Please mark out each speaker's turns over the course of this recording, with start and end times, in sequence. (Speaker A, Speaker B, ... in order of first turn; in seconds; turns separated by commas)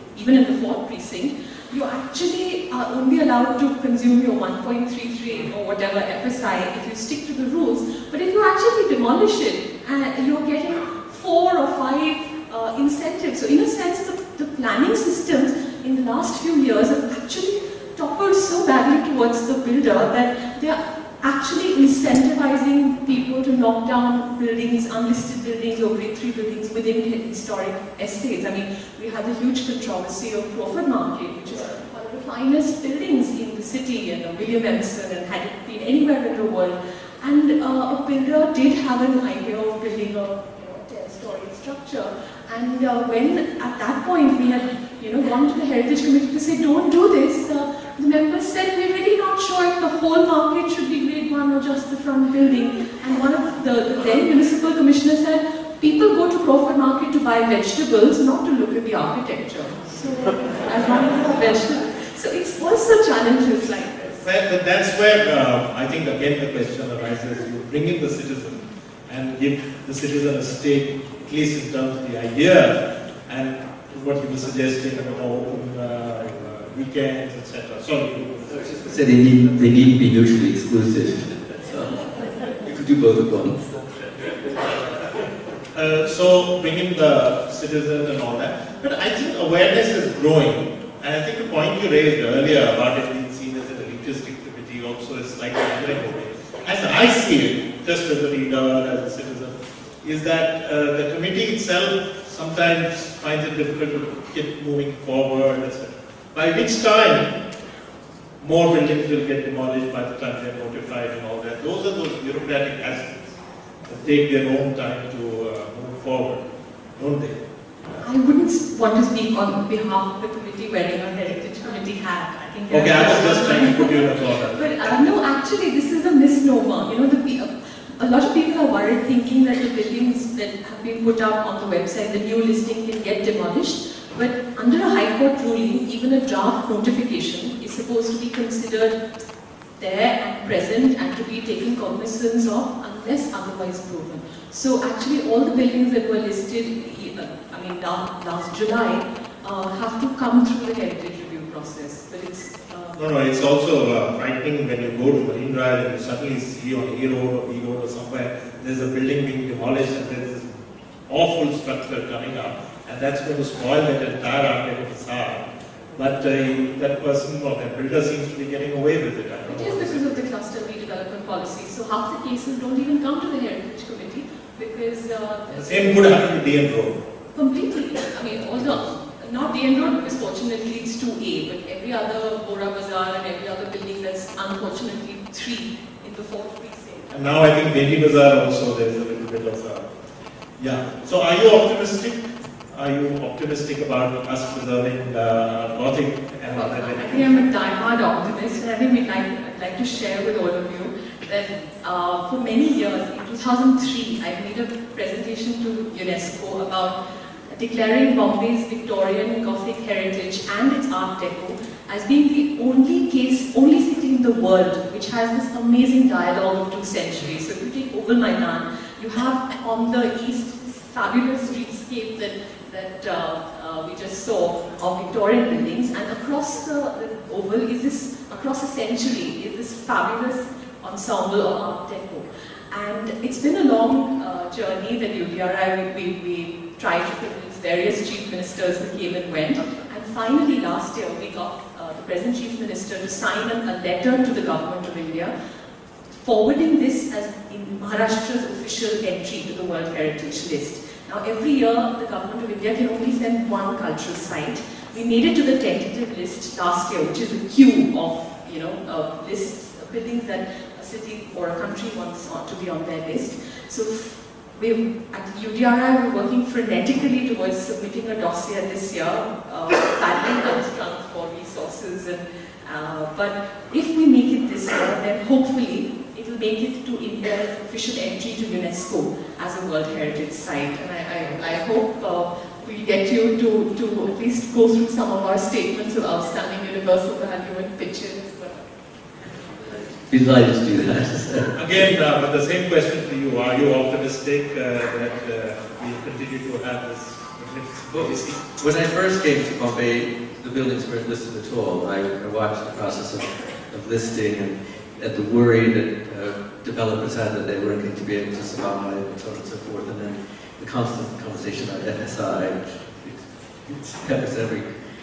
Speaker A: 0.1-64.1, Speaker B: 64.2-78.3, Speaker C: 78.5-84.5, Speaker B: 85.7-107.3, Speaker B: 108.4-113.3, Speaker B: 113.9-116.4, Speaker B: 117.0-117.4, Speaker A: 118.0-139.0, Speaker B: 122.7-125.0, Speaker A: 139.8-153.0, Speaker B: 153.0-160.5, Speaker B: 161.1-165.4, Speaker B: 165.9-170.2, Speaker A: 169.5-176.2, Speaker B: 175.5-177.0, Speaker A: 177.3-187.1, Speaker B: 187.1-189.9, Speaker B: 190.6-192.2, Speaker B: 192.7-197.4, Speaker A: 196.5-207.0, Speaker A: 207.5-245.3, Speaker A: 246.2-288.5, Speaker C: 290.1-291.9, Speaker B: 291.6-298.4, Speaker C: 297.9-314.7